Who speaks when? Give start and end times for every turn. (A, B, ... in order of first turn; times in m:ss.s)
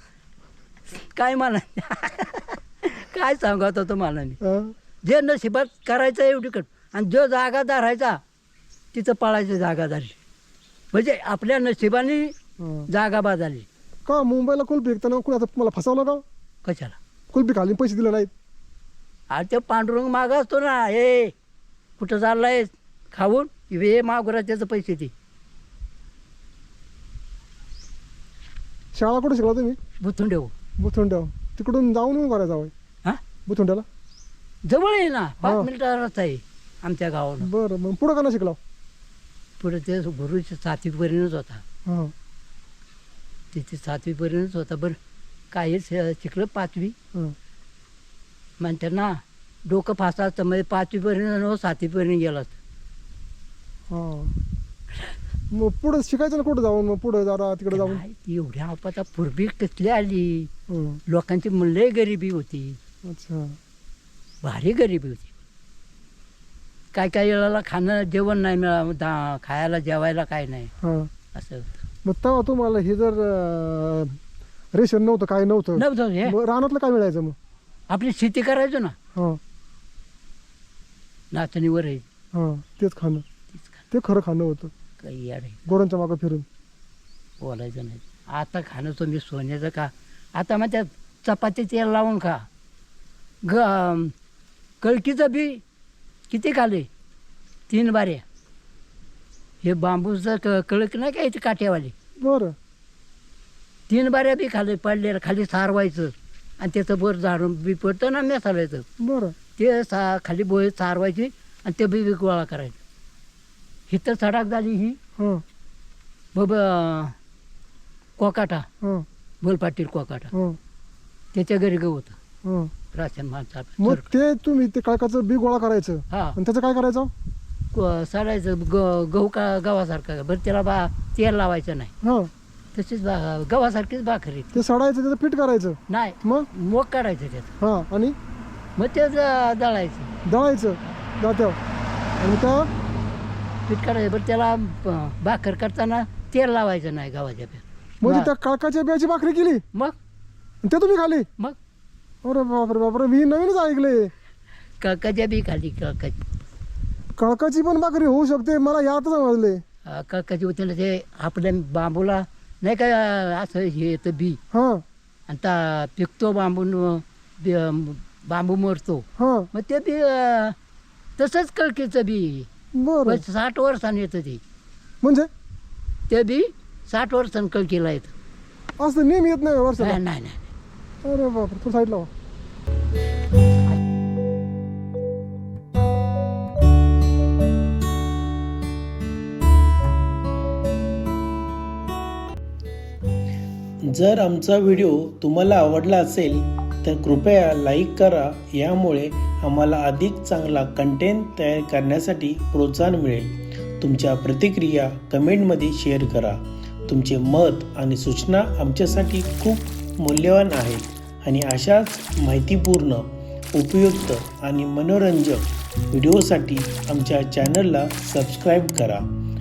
0:00.9-0:04.4 A
0:04.4-0:04.7 B
0:05.0-0:08.2 A
0:08.9-0:10.2 A
0:10.9-0:12.3 A
0:12.6-0:12.9 B
0:12.9-0:13.7 A
0:14.1-0:16.2 B
0:16.6-0:17.0 A
0:17.3-0:18.3 B
0:19.3-0:21.3 A
0:22.0-0:25.1 A
0:28.9-0:29.8 B
0:30.0-0:30.5 A
0:30.8-0:32.7 B
0:33.5-0:33.8 B
0:34.7-0:37.5 A
0:35.4-0:35.7 B
0:37.4-0:38.6 B
0:39.6-0:41.6 A
0:41.9-0:42.1 B
0:43.5-0:45.0 A
0:45.5-0:47.0 A
0:48.6-0:52.6 A
0:53.9-0:54.3 B
0:55.5-0:58.0 B
0:57.7-1:00.5 A
1:00.7-1:01.0 B
1:01.1-1:02.8 A
1:03.1-1:03.6 B
1:04.4-1:05.3 A
1:06.9-1:10.7 A
1:10.8-1:11.1 B
1:11.3-1:11.8 A
1:12.0-1:14.2 B
1:14.7-1:17.4 B
1:15.8-1:16.4 A
1:17.9-1:19.0 A
1:19.2-1:19.4 B
1:21.3-1:22.0 A
1:22.3-1:23.2 B
1:23.6-1:23.8 A
1:23.9-1:24.7 B
1:25.0-1:25.6 A
1:25.7-1:26.4 B
1:27.4-1:32.5 A
1:33.4-1:34.1 A
1:34.8-1:35.6 A
1:36.3-1:36.9 A
1:37.7-1:38.2 A
1:39.6-1:41.9 A
1:42.2-1:42.6 B
1:43.9-1:48.8 A
1:49.0-1:49.4 B
1:49.6-1:52.8 A
1:53.9-1:55.0 A
1:55.2-1:55.4 B
1:56.3-1:57.2 A
1:58.2-1:58.7 A
1:58.8-1:59.1 B
1:59.4-2:00.3 A
2:00.3-2:00.6 B
2:01.3-2:02.2 A
2:02.4-2:02.7 B
2:02.9-2:04.1 A
2:03.8-2:07.1 B
2:06.1-2:06.4 A
2:07.7-2:11.9 A
2:12.0-2:12.3 B
2:12.7-2:14.6 A
2:14.5-2:16.5 B
2:15.9-2:17.5 A
2:17.6-2:18.2 B
2:18.8-2:20.1 A
2:20.3-2:21.6 B
2:22.2-2:22.7 B
2:23.7-2:28.3 A
2:28.0-2:29.6 B
2:30.6-2:31.3 B
2:32.2-2:34.1 B
2:34.8-2:36.2 A
2:37.2-2:39.6 B
2:39.9-2:44.4 A
2:44.5-2:44.8 B
2:45.3-2:50.6 A
2:49.2-2:49.5 B
2:51.2-2:52.5 A
2:52.8-2:53.2 B
2:53.1-2:54.4 A
2:55.0-2:55.3 B
2:56.1-2:58.1 A
2:58.8-3:00.0 B
2:59.8-3:00.5 A
3:01.0-3:02.1 B
3:13.8-3:39.0 C